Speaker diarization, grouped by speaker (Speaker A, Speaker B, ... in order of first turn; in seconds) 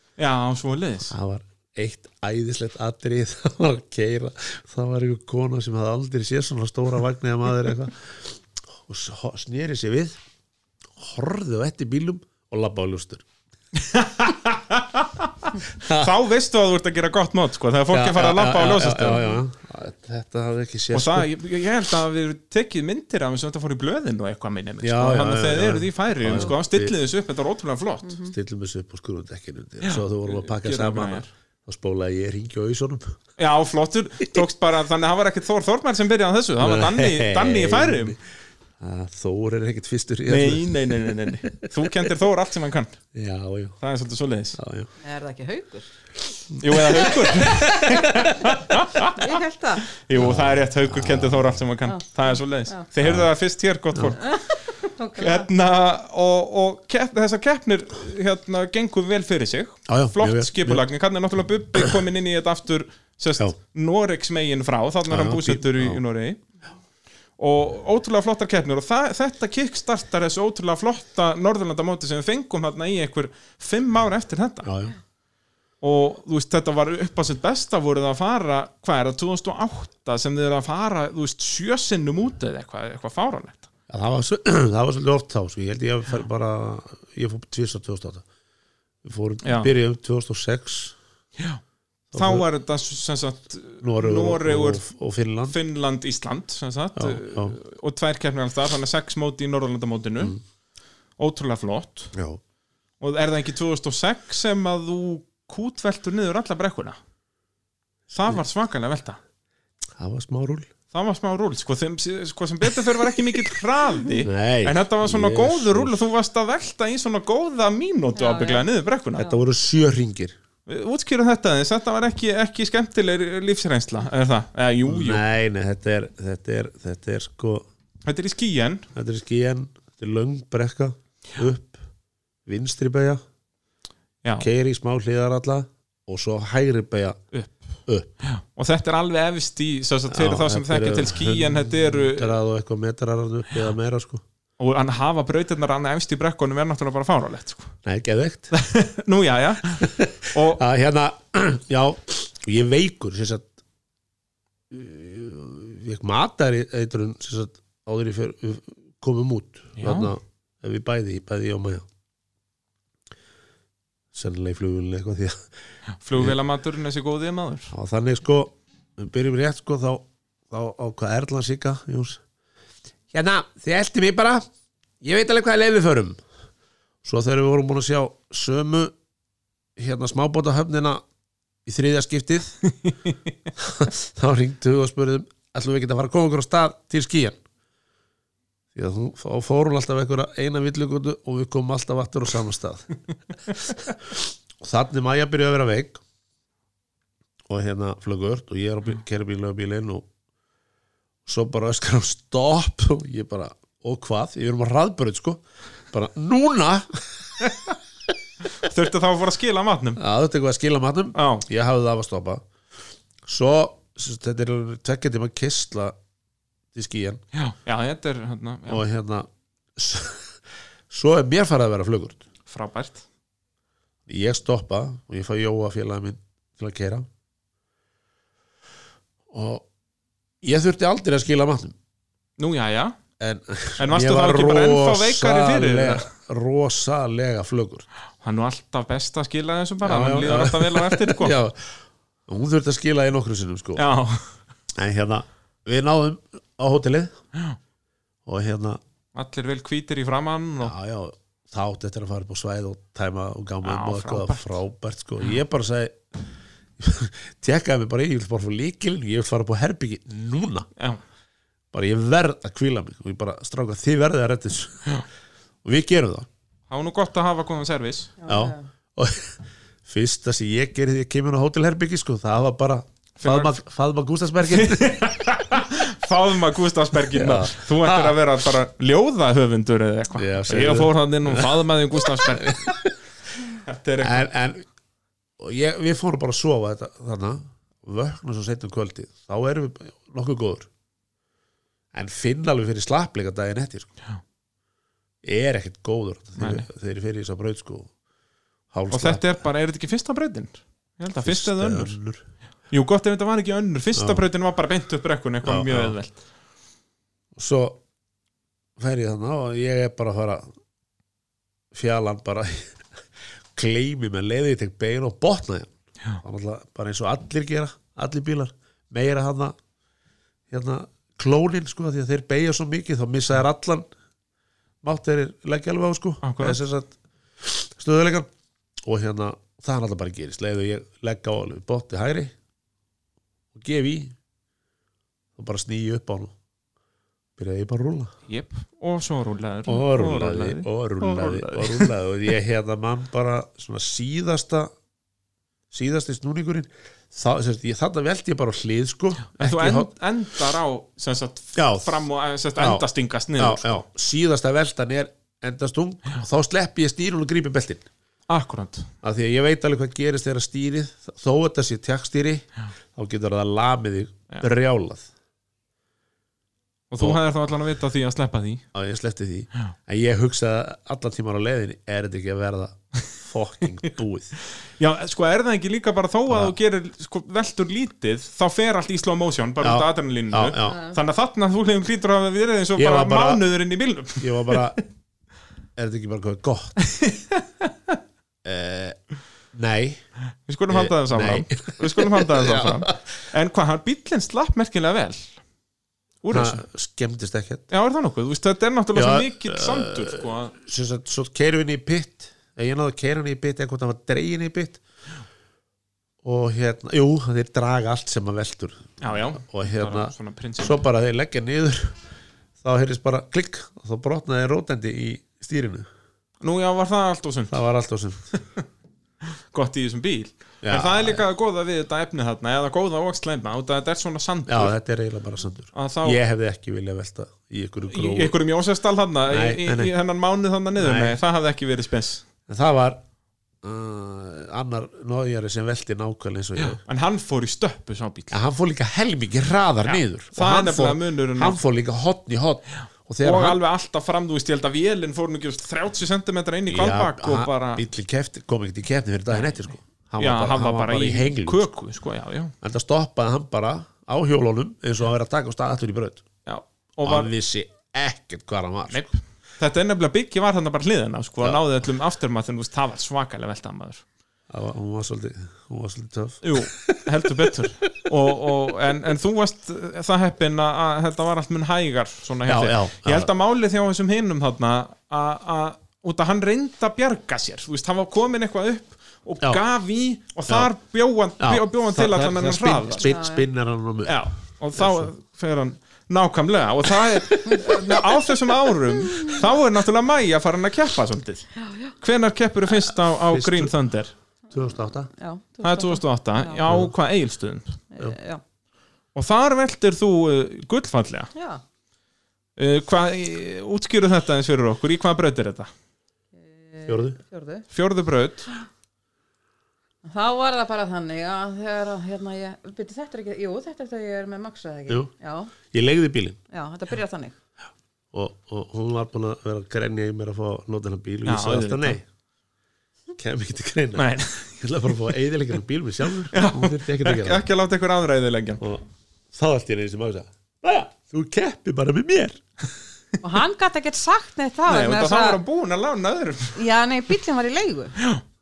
Speaker A: 0.2-1.1, 13.7-19.2, 20.9-28.2, 29.8-31.3, 33.4-38.2, 40.3-43.0, 43.8-44.6, 46.6-49.2, 49.9-54.4, 55.2-66.4, 67.4-74.7, 75.8-83.7, 89.4-89.7, 92.2-94.8, 95.5-100.3, 101.2-102.1, 103.0-107.0, 108.1-109.2, 110.9-119.3, 120.7-125.2, 128.0-128.9, 137.3-142.4, 144.6-147.8, 148.5-150.6, 159.8-160.1, 166.0-167.7, 182.7-183.2, 208.6-210.0, 211.2-211.4, 217.3-218.8, 222.5-223.0, 232.4-233.0, 233.8-236.1, 238.2-241.4, 243.8-244.3, 249.2-250.7, 253.6-254.6, 266.7-268.1, 273.2-273.6, 274.5-282.7, 283.6-284.3, 296.4-296.7, 298.9-302.0, 302.7-306.2, 326.2-326.6, 338.3-341.9, 349.4-353.9, 358.3-358.9, 366.9-368.6, 374.8-384.6, 386.9-387.7, 390.5-395.4, 396.2-396.6, 397.7-400.6, 409.0-410.8, 416.4-417.6, 419.5-424.7, 425.7-426.2, 427.9-432.2, 436.6-438.4, 439.9-441.6, 443.2-447.8, 450.2-452.5, 456.5-457.3, 458.9-464.0, 466.4-483.1, 484.1-491.5, 492.0-494.1, 495.6-497.8, 499.1-501.3, 502.6-505.7, 507.7-508.5, 521.2-522.0, 524.0-524.5, 526.3-528.6, 534.7-536.6
Speaker B: 1.1-10.2, 11.0-13.2, 15.8-16.1, 17.9-21.3, 24.8-26.9, 28.3-33.2, 36.6-38.2, 38.8-40.9, 43.1-43.8, 44.6-44.9, 46.5-47.6, 50.1-51.5, 53.0-53.3, 59.9-60.9, 65.1-66.0, 74.6-75.0, 83.9-88.2, 89.0-91.0, 92.1-92.5, 93.8-95.6, 97.0-97.6, 102.1-102.4, 110.0-110.7, 114.2-116.0, 119.2-120.4, 124.9-127.7, 128.9-131.8, 132.5-133.2, 134.4-137.2, 140.1-144.2, 147.8-148.5, 149.8-153.5, 154.7-161.8, 164.1-165.4, 167.7-172.2, 173.1-174.5, 175.0-176.2, 177.0-178.9, 179.8-181.0, 181.7-182.6, 183.6-187.4, 188.8-196.0, 197.5-200.1, 201.3-207.3, 210.0-212.4, 213.3-215.9, 216.7-217.2, 218.7-220.3, 220.9-222.2, 224.1-227.1, 229.3-229.7, 230.4-231.8, 233.2-237.9, 239.8-243.8, 244.8-247.2, 248.3-248.8, 250.6-256.0, 256.8-260.7, 261.7-264.9, 265.6-266.3, 268.3-275.0, 277.1-278.2, 280.2-282.9, 284.0-284.7, 285.4-290.7, 291.9-293.9, 295.2-297.9, 298.7-299.4, 301.2-302.2, 304.0-304.2, 305.4-306.0, 307.4-307.8, 308.8-310.5, 311.7-312.8, 313.5-319.6, 320.5-323.9, 324.8-328.3, 328.8-332.3, 333.5-334.1, 335.4-336.4, 337.4-338.1, 339.7-344.7, 345.7-349.9, 351.6-352.0, 352.6-352.9, 353.4-357.9, 359.0-365.1, 368.7-374.3, 376.3-376.6, 379.6-380.8, 382.8-383.4, 384.2-384.8, 385.8-386.8, 388.4-389.0, 389.5-390.0, 390.7-393.0, 396.3-397.7, 398.9-404.8, 406.2-412.0, 412.6-415.9, 417.5-418.3, 420.6-421.2, 424.5-428.4, 429.3-429.9, 430.8-431.2, 432.5-433.0, 433.6-436.8, 438.3-443.6, 446.7-451.7, 452.6-456.2, 457.1-459.1, 464.5-466.9, 472.5-473.3, 481.4-484.2, 484.8-485.1, 492.7-493.8, 494.5-495.1, 496.7-496.9, 506.9-507.2, 515.7-516.4, 518.1-522.0, 523.2-527.5, 528.6-532.5
Speaker C: 45.0-45.9, 49.1-49.9, 54.2-55.5, 118.2-118.7, 268.2-268.6, 380.6-381.0, 483.1-483.5, 491.6-491.9, 495.2-496.6, 497.9-498.4, 501.4-501.6, 506.4-507.7, 510.1-515.5, 516.5-517.4, 533.2-535.4, 536.6-538.0